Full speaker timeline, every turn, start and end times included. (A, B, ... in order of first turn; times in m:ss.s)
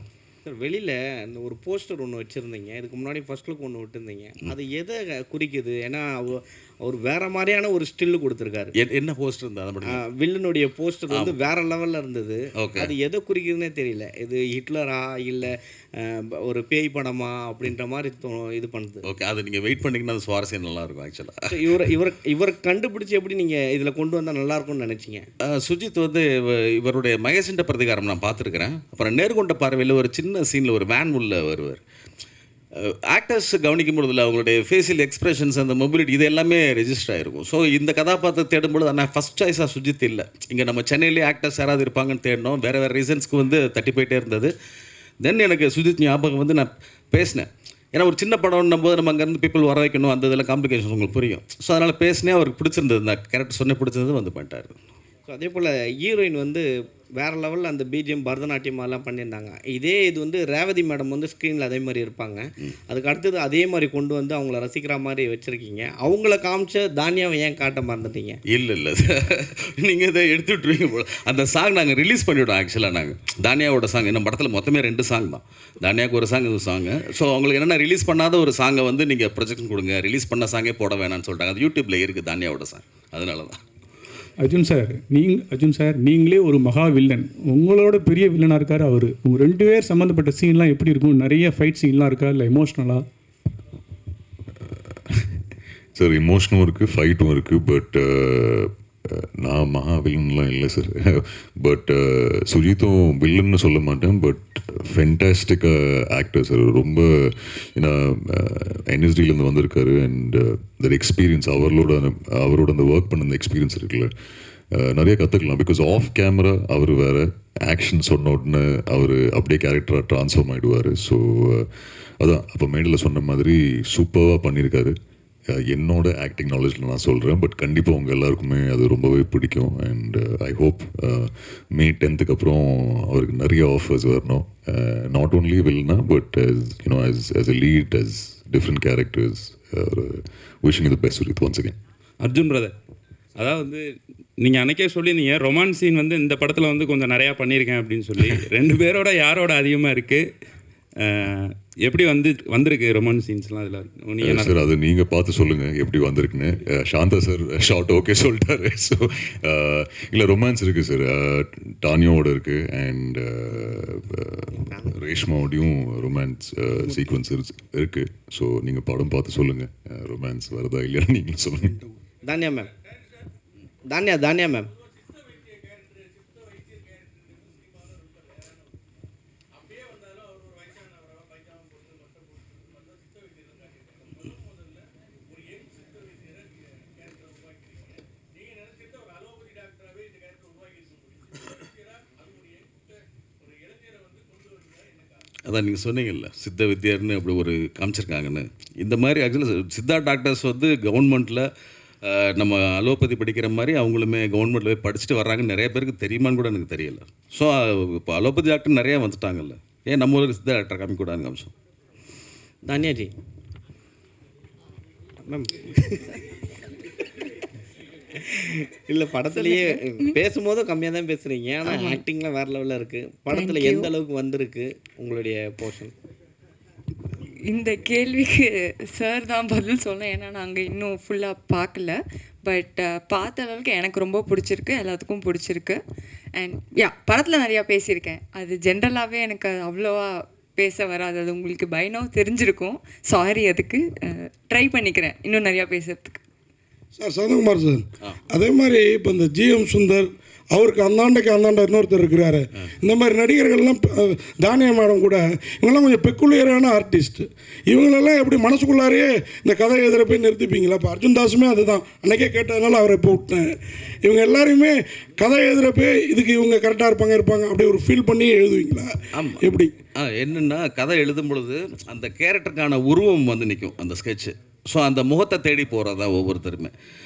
0:00.4-0:08.7 A
0:08.8-0:10.0 B
0:09.8-0:19.1 A
0:11.1-0:11.4 B
0:12.6-0:12.9 B
0:19.0-0:21.4 B
0:21.5-0:25.3 A
0:25.4-0:31.8 B
0:32.8-0:44.5 B
0:45.2-0:54.8 B
0:55.3-1:08.4 A
1:08.5-1:23.6 B
1:24.4-1:33.0 C
1:34.9-1:35.3 D
1:36.0-1:54.1 D
1:54.7-2:01.7 D
2:02.2-2:05.0 D
2:05.5-2:21.8 D
2:22.2-2:22.7 E
2:23.4-2:23.8 E
2:24.4-2:30.2 E
2:31.0-2:34.5 E
2:34.2-2:51.8 D
2:44.6-2:44.9 A
2:52.2-2:52.7 A
2:53.8-2:54.7 A
3:15.5-3:21.5 B
3:22.0-3:31.5 B
3:32.6-3:33.1 A
3:35.2-3:36.2 A
3:38.3-3:45.9 A
3:47.5-3:48.5 F
3:49.0-3:51.9 F
3:52.5-3:55.8 F
3:56.4-4:03.8 F
4:04.5-4:06.2 F
4:07.0-4:23.5 G
4:24.0-4:29.7 G
4:29.2-4:29.4 B
4:29.9-4:36.7 B